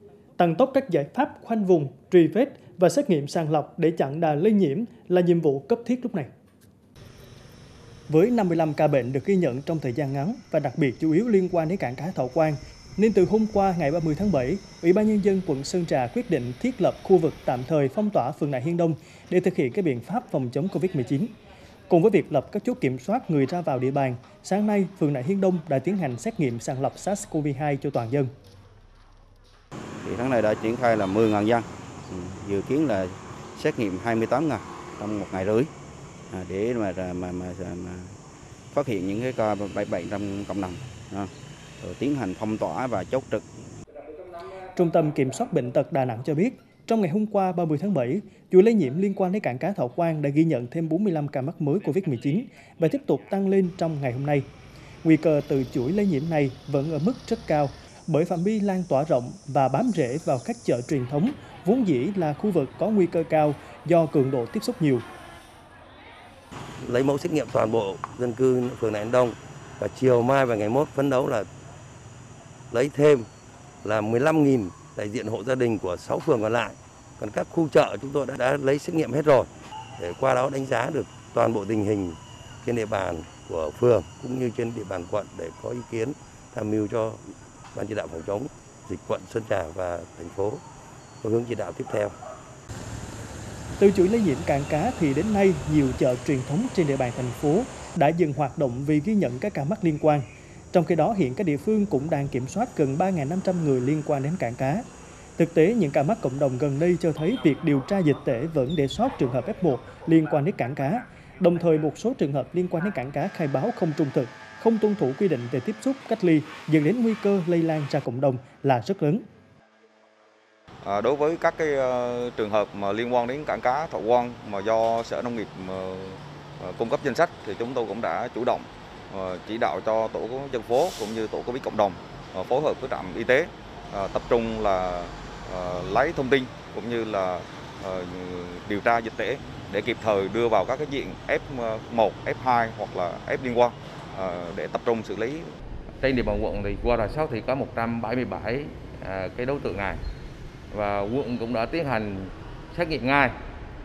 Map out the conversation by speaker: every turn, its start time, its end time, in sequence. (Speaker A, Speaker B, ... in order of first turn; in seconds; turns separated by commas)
Speaker A: 0.4-6.3, Speaker A: 8.1-21.3, Speaker A: 21.9-28.3, Speaker B: 30.0-35.7, Speaker B: 36.3-38.1, Speaker B: 38.7-43.4, Speaker A: 44.7-54.4, Speaker A: 55.0-65.0, Speaker C: 66.8-71.5, Speaker C: 72.7-73.2, Speaker C: 73.8-87.2, Speaker C: 87.7-90.6, Speaker C: 91.2-92.1, Speaker A: 93.8-104.8, Speaker A: 105.4-119.2, Speaker D: 120.8-145.5, Speaker E: 146.0-150.0, Speaker E: 150.7-153.3